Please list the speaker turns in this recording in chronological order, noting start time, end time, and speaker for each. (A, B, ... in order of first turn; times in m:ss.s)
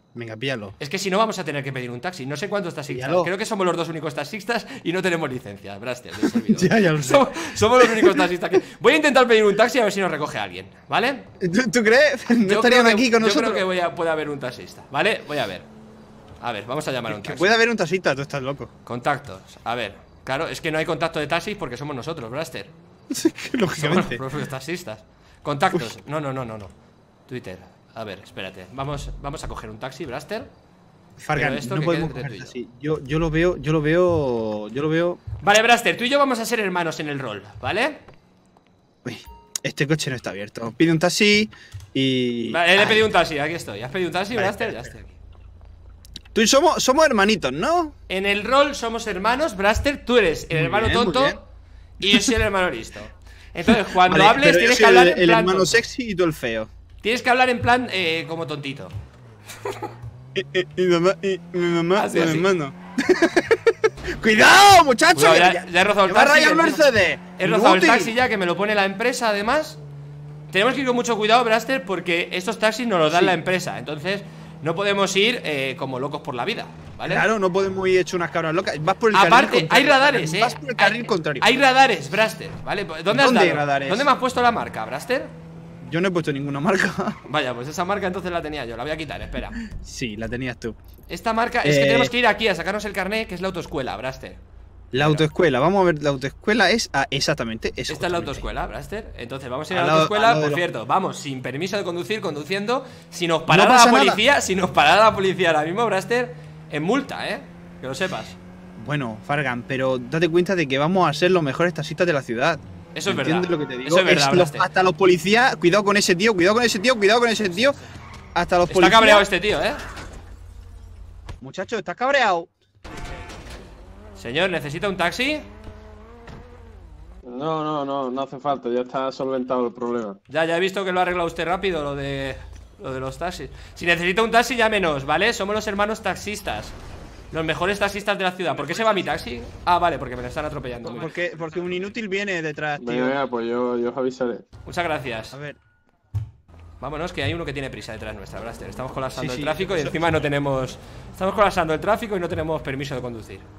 0:00.1-0:00.7 A
0:00.8-0:11.3 B
0:02.9-0:03.3 A
0:06.3-0:08.2 A
0:11.4-0:13.6 A
0:12.4-0:15.7 B
0:16.4-0:17.5 B
0:17.1-0:18.7 A
0:18.8-0:22.7 B
0:23.1-0:24.2 A
0:23.7-0:26.7 B
0:27.3-0:30.5 B
0:31.2-0:35.2 A
0:31.3-0:32.5 B
0:35.4-0:38.0 B
0:39.0-0:43.1 A
0:42.5-0:45.2 B
0:44.3-0:44.9 A
0:46.3-0:48.0 A
0:48.1-0:51.4 B
0:50.5-0:51.4 A
0:52.0-0:55.8 B
0:53.7-0:56.7 A
0:57.0-0:58.9 B
1:00.3-1:08.1 A
1:02.0-1:02.5 B
1:05.1-1:09.8 B
1:10.5-1:17.2 B
1:13.1-1:13.4 A
1:17.0-1:21.5 A
1:19.1-1:25.3 B
1:23.1-1:24.1 A
1:25.8-1:27.2 A
1:27.3-1:29.6 B
1:29.6-1:30.8 A
1:31.1-1:34.4 B
1:31.6-1:32.1 A
1:34.9-1:38.4 A
1:34.9-1:35.2 B
1:37.9-1:48.4 B
1:39.7-1:40.6 A
1:43.5-1:44.2 A
1:48.8-1:57.8 A
1:53.0-1:54.7 B
1:57.5-1:57.8 B
1:58.3-1:59.3 A
1:58.7-1:59.8 B
2:01.4-2:02.5 A
2:04.2-2:05.4 B
2:07.3-2:10.2 C
2:10.3-2:16.7 B
2:17.3-2:21.1 B
2:18.6-2:18.9 A
2:20.9-2:23.2 A
2:22.8-2:24.4 C
2:24.6-2:25.4 B
2:25.3-2:25.6 A
2:26.8-2:33.4 B
2:29.1-2:30.1 A